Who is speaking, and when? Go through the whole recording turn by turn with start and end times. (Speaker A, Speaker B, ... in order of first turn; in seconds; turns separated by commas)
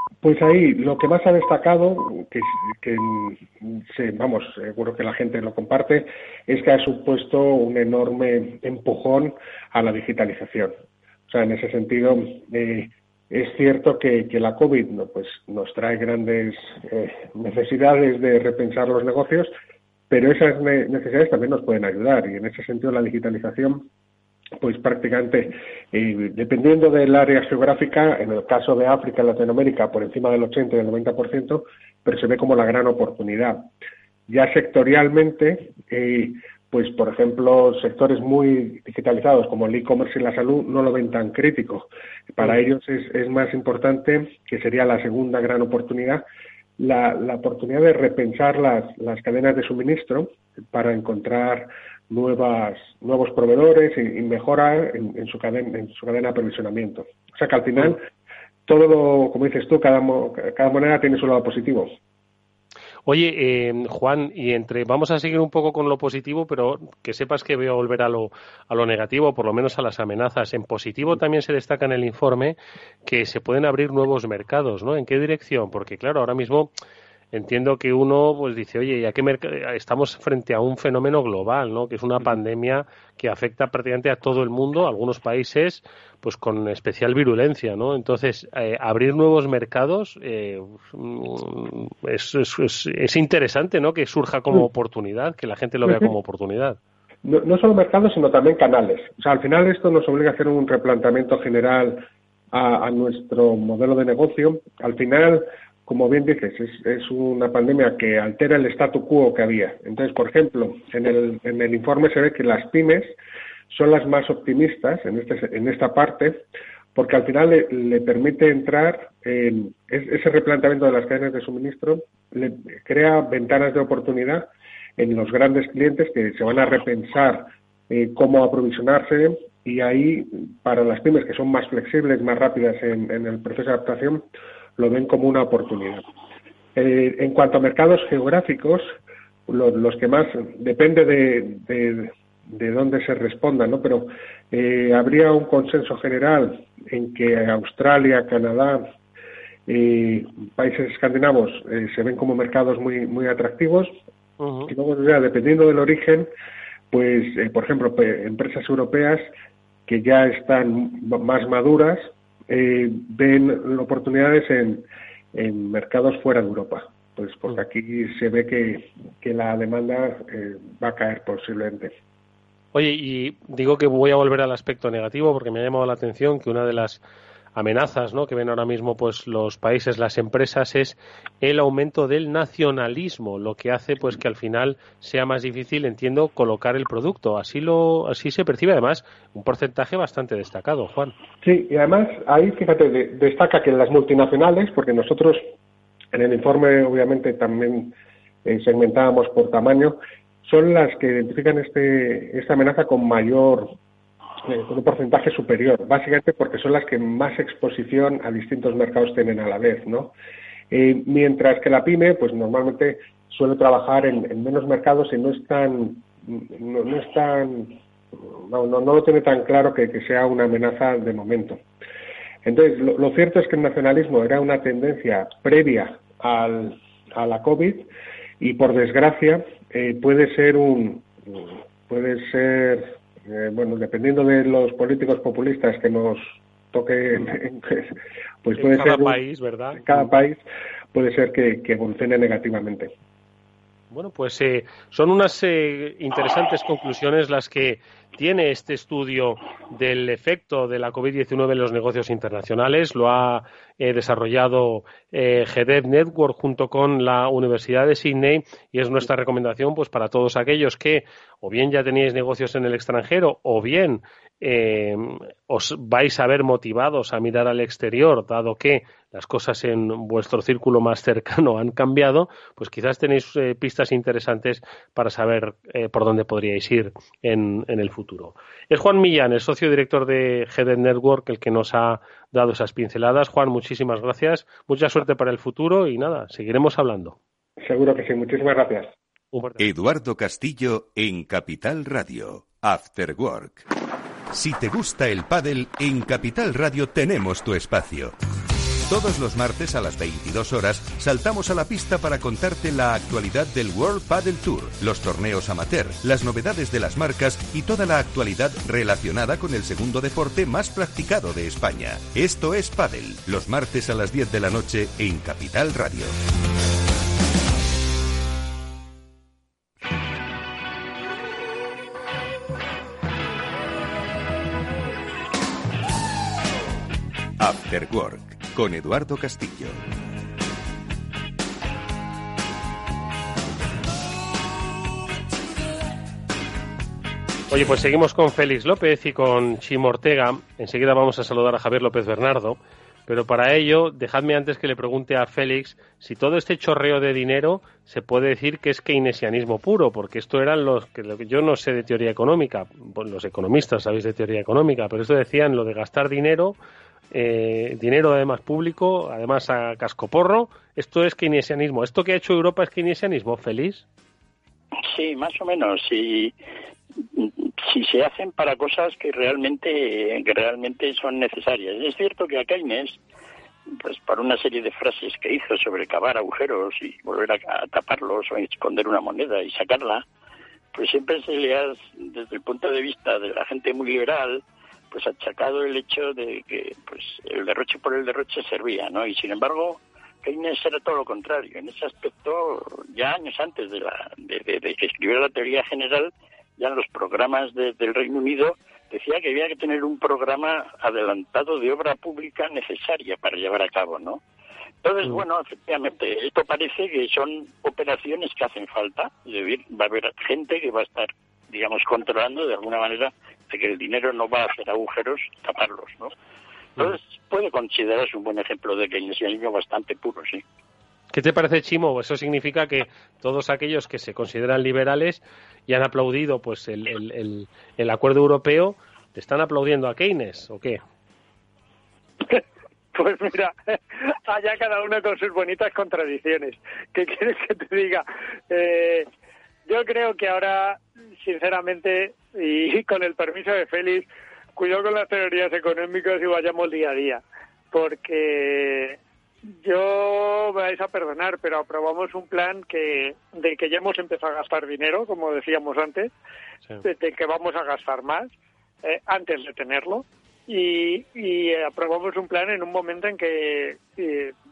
Speaker A: 0.2-10.8, Speaker A: 11.3-19.5, Speaker A: 20.1-23.9, Speaker A: 24.6-33.7, Speaker A: 34.3-46.2, Speaker A: 46.8-58.1, Speaker A: 58.6-62.0, Speaker B: 63.0-76.7, Speaker B: 77.3-96.8, Speaker A: 95.8-96.2, Speaker A: 97.2-113.2, Speaker A: 113.7-136.1, Speaker A: 136.7-148.9, Speaker A: 149.7-154.0, Speaker B: 154.4-154.7, Speaker A: 154.7-156.3, Speaker A: 156.9-159.3, Speaker A: 159.9-172.0, Speaker B: 172.7-177.0, Speaker B: 177.5-191.1, Speaker A: 191.4-195.5, Speaker A: 196.1-203.8, Speaker A: 204.4-210.1, Speaker A: 210.7-221.6, Speaker A: 222.4-227.9, Speaker A: 228.4-239.2, Speaker B: 238.6-240.1, Speaker A: 239.7-242.9, Speaker B: 243.9-287.1, Speaker A: 287.6-288.9, Speaker B: 289.3-289.6, Speaker C: 289.6-293.7, Speaker C: 294.3-298.1, Speaker C: 298.8-316.1, Speaker C: 327.4-329.8, Speaker B: 337.5-356.6, Speaker B: 357.1-363.9, Speaker D: 364.8-366.3, Speaker D: 367.1-373.0, Speaker D: 373.7-380.0, Speaker D: 380.7-404.2, Speaker D: 404.8-416.1, Speaker D: 416.8-420.4, Speaker B: 421.1-430.8, Speaker E: 432.3-439.1, Speaker E: 439.6-456.1, Speaker E: 456.8-458.3, Speaker E: 458.8-464.3